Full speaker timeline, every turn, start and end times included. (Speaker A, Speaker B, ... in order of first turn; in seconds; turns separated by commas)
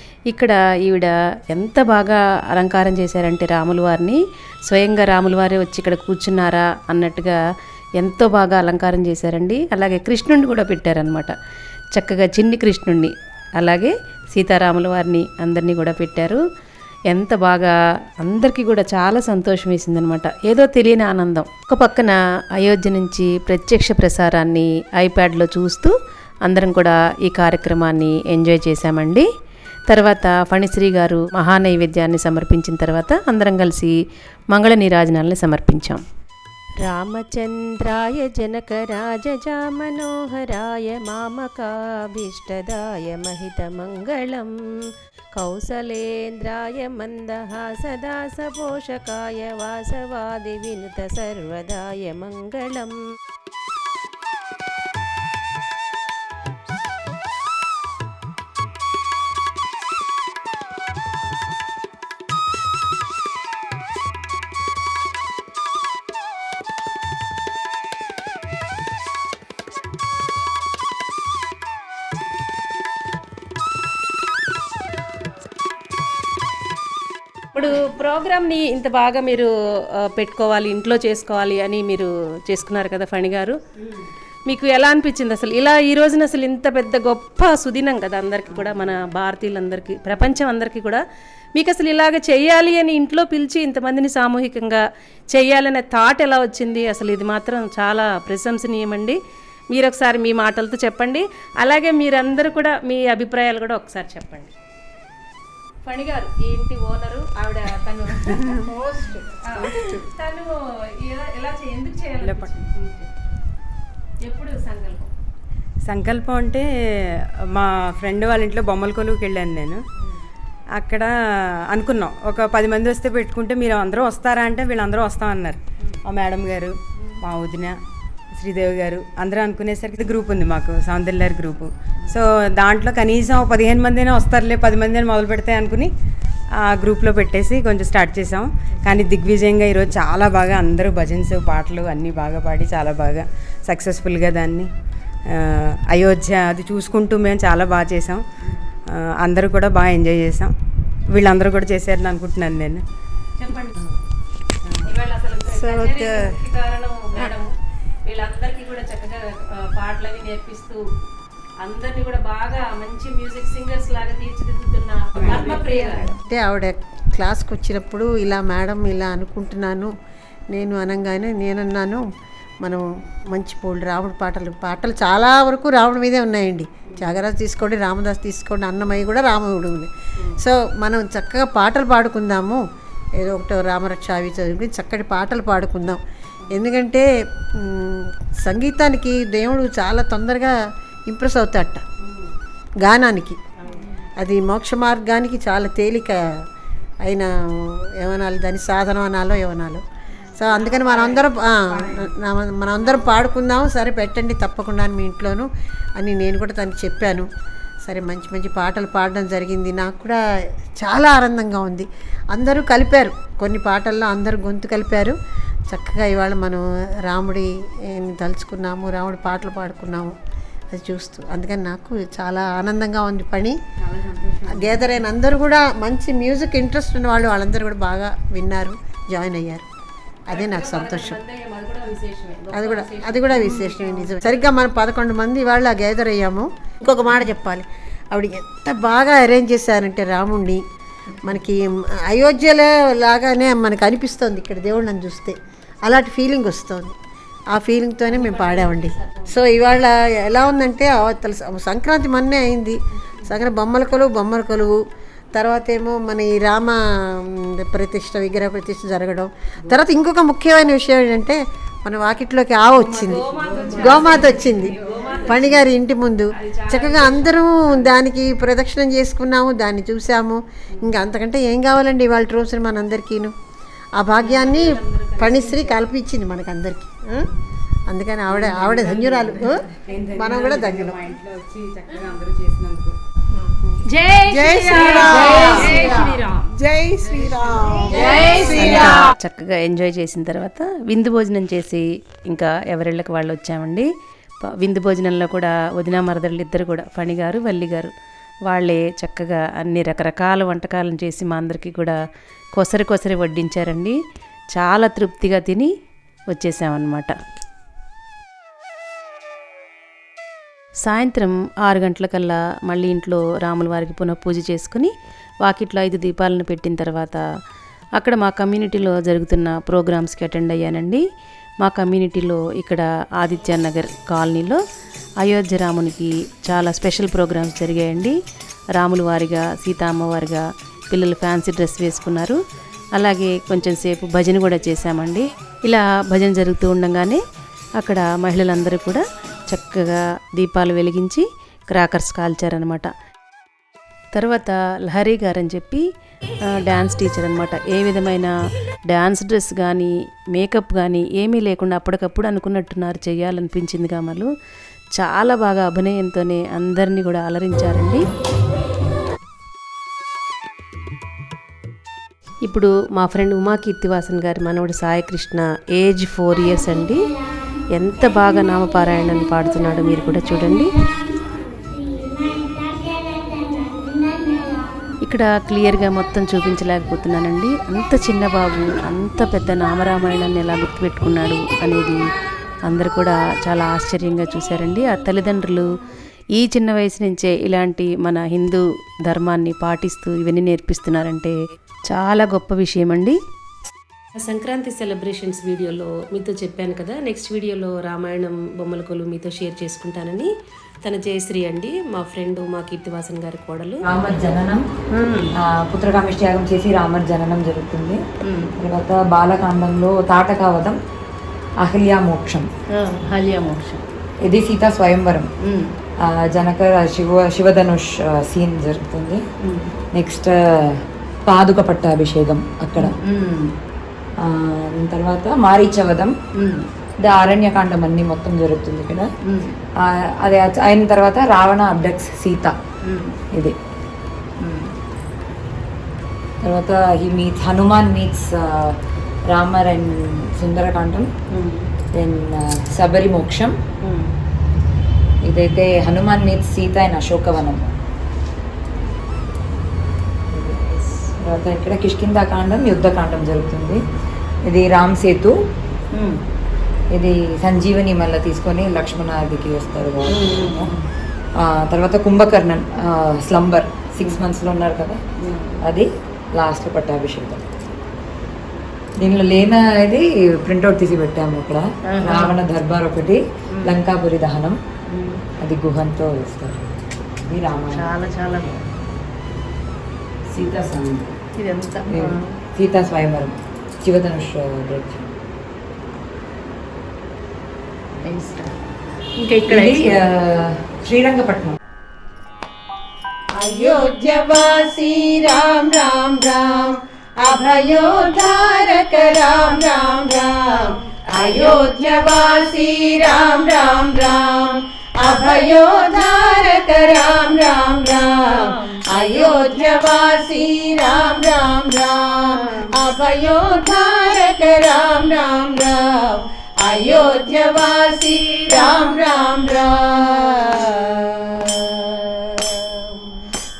Speaker A: 0.3-7.4, Speaker A: 8.0-11.3, Speaker A: 11.9-16.4, Speaker A: 17.1-25.9, Speaker A: 26.4-29.3, Speaker A: 29.9-34.0, Speaker A: 34.5-36.0, Speaker A: 36.8-44.5, Speaker A: 45.4-53.0, Speaker A: 77.5-83.6, Speaker A: 84.5-91.0, Speaker A: 91.5-99.2, Speaker A: 99.7-104.5, Speaker A: 105.8-108.6, Speaker A: 109.3-113.1, Speaker B: 112.2-112.5, Speaker A: 114.2-115.1, Speaker B: 115.8-119.8, Speaker B: 120.7-121.1, Speaker B: 121.7-127.8, Speaker B: 128.3-135.9, Speaker B: 136.6-144.7, Speaker B: 145.3-148.2, Speaker B: 148.9-150.5, Speaker B: 151.1-152.8, Speaker A: 153.4-153.9, Speaker A: 154.8-157.5, Speaker C: 155.6-156.2, Speaker A: 158.0-160.8, Speaker A: 161.6-166.2, Speaker B: 165.2-165.5, Speaker C: 166.3-169.9, Speaker C: 170.5-172.1, Speaker C: 172.6-182.6, Speaker C: 183.2-190.6, Speaker C: 191.1-191.8, Speaker C: 192.8-193.4, Speaker C: 194.2-196.3, Speaker C: 197.0-199.8, Speaker C: 200.3-207.3, Speaker C: 207.8-210.2, Speaker C: 210.8-215.2, Speaker C: 215.7-220.2, Speaker C: 220.7-223.6, Speaker C: 224.5-229.7, Speaker C: 230.3-231.2, Speaker A: 230.3-234.2, Speaker C: 232.5-240.6, Speaker C: 241.2-246.9, Speaker C: 247.5-254.8, Speaker A: 248.1-249.3, Speaker C: 255.3-273.3, Speaker A: 262.7-265.7, Speaker A: 266.4-267.7, Speaker C: 273.9-277.3, Speaker A: 274.2-275.7, Speaker C: 277.9-281.0, Speaker B: 278.3-282.9, Speaker C: 283.5-283.8, Speaker A: 283.9-286.4, Speaker C: 284.3-288.8, Speaker B: 284.5-285.9, Speaker D: 284.7-286.1, Speaker B: 286.8-288.5, Speaker D: 287.9-289.0, Speaker A: 288.2-293.9, Speaker A: 294.4-297.9, Speaker A: 298.5-302.0, Speaker A: 302.5-304.0, Speaker A: 304.5-305.7, Speaker A: 306.3-307.1, Speaker A: 310.8-314.9, Speaker A: 315.4-317.2, Speaker A: 318.0-321.0, Speaker A: 321.6-324.6, Speaker A: 325.2-328.1, Speaker A: 328.7-332.4, Speaker A: 332.9-337.2, Speaker A: 337.8-342.9, Speaker A: 344.1-345.8, Speaker A: 346.5-348.3, Speaker A: 348.9-354.3, Speaker A: 355.0-358.0, Speaker A: 362.4-367.1, Speaker A: 367.8-370.7, Speaker A: 375.0-382.0, Speaker A: 382.6-385.8, Speaker A: 386.4-391.4, Speaker A: 391.9-393.2, Speaker A: 394.1-400.3, Speaker A: 400.8-403.8, Speaker E: 403.8-404.6, Speaker A: 404.9-405.3, Speaker E: 405.3-408.0, Speaker A: 408.2-408.6, Speaker E: 408.6-410.8, Speaker E: 411.6-412.4, Speaker A: 412.7-413.8, Speaker E: 414.2-415.3, Speaker A: 415.4-415.7, Speaker E: 416.0-419.2, Speaker A: 419.4-419.8, Speaker E: 419.9-423.0, Speaker A: 422.8-423.5, Speaker E: 424.2-426.1, Speaker A: 426.4-426.6, Speaker E: 427.0-429.1, Speaker A: 429.2-429.5, Speaker E: 429.8-432.5, Speaker A: 432.8-433.2, Speaker A: 434.4-434.7, Speaker E: 436.4-438.8, Speaker E: 439.3-441.1, Speaker A: 441.3-441.7, Speaker E: 441.9-443.6, Speaker A: 443.8-444.1, Speaker E: 445.2-447.7, Speaker E: 450.3-450.6, Speaker E: 451.2-453.8, Speaker E: 454.4-455.4, Speaker E: 456.9-460.8, Speaker A: 460.1-460.8, Speaker E: 461.4-465.0, Speaker A: 465.2-465.6, Speaker E: 465.6-467.4, Speaker E: 469.0-474.6, Speaker A: 471.9-472.4, Speaker A: 474.9-475.2, Speaker E: 475.4-476.6, Speaker E: 477.2-478.6, Speaker A: 477.7-478.5, Speaker E: 480.3-481.1, Speaker A: 481.4-482.3, Speaker E: 481.9-485.1, Speaker A: 488.0-488.5, Speaker A: 489.2-489.9, Speaker E: 489.5-491.6, Speaker D: 493.4-523.1